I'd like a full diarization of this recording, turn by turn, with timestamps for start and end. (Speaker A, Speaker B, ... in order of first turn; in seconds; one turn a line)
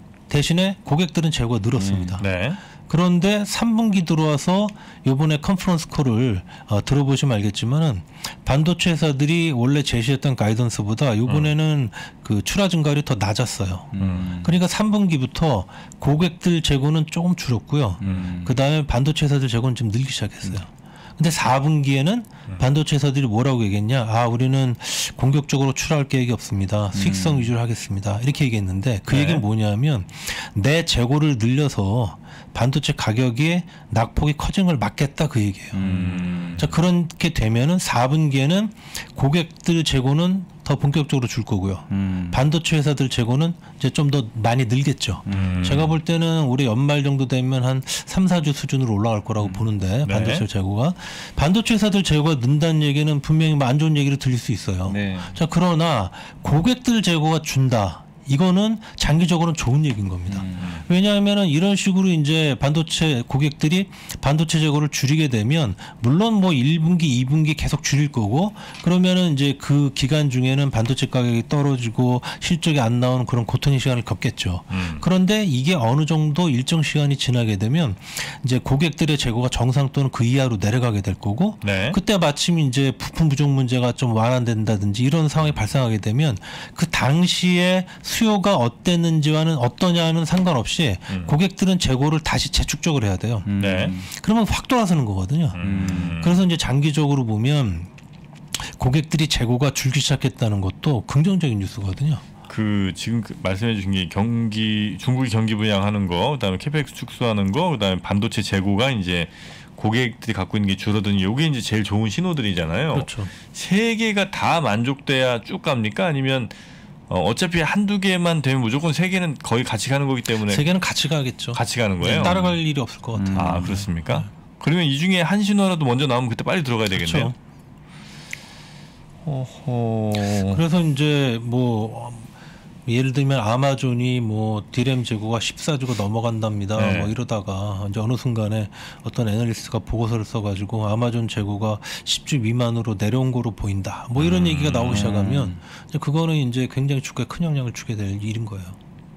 Speaker A: 0.3-2.3
Speaker B: 1.8-2.2
Speaker C: 2.2-2.6
Speaker A: 2.9-13.9
Speaker C: 11.3-11.5
Speaker B: 13.9-14.6
Speaker C: 14.0-14.3
Speaker A: 14.4-35.8
Speaker B: 18.0-18.6
Speaker C: 18.0-18.3
Speaker B: 26.9-27.5
Speaker C: 29.1-29.4
Speaker B: 35.7-36.7
Speaker C: 35.8-36.7
Speaker A: 36.6-93.5
Speaker B: 41.9-42.4
Speaker B: 45.3-45.8
Speaker C: 45.3-46.0
Speaker B: 49.4-49.7
Speaker C: 50.0-50.5
Speaker B: 54.9-55.4
Speaker B: 60.3-60.8
Speaker C: 74.7-75.1
Speaker C: 81.6-82.0
Speaker C: 91.1-91.4
Speaker B: 93.5-94.1
Speaker C: 93.6-94.0
Speaker A: 94.1-97.9
Speaker C: 95.5-96.5
Speaker B: 95.6-96.2
Speaker A: 98.6-102.2
Speaker C: 102.5-116.5
Speaker A: 112.9-113.3
Speaker C: 117.1-120.7
Speaker A: 120.5-124.3
Speaker C: 121.5-122.5
Speaker B: 122.2-122.5
Speaker B: 123.2-123.8
Speaker C: 123.4-127.3
Speaker A: 126.9-127.3
Speaker C: 129.2-130.6
Speaker A: 130.3-132.3
Speaker A: 132.9-148.8
Speaker C: 136.8-137.1
Speaker C: 144.2-145.1
Speaker B: 144.9-145.6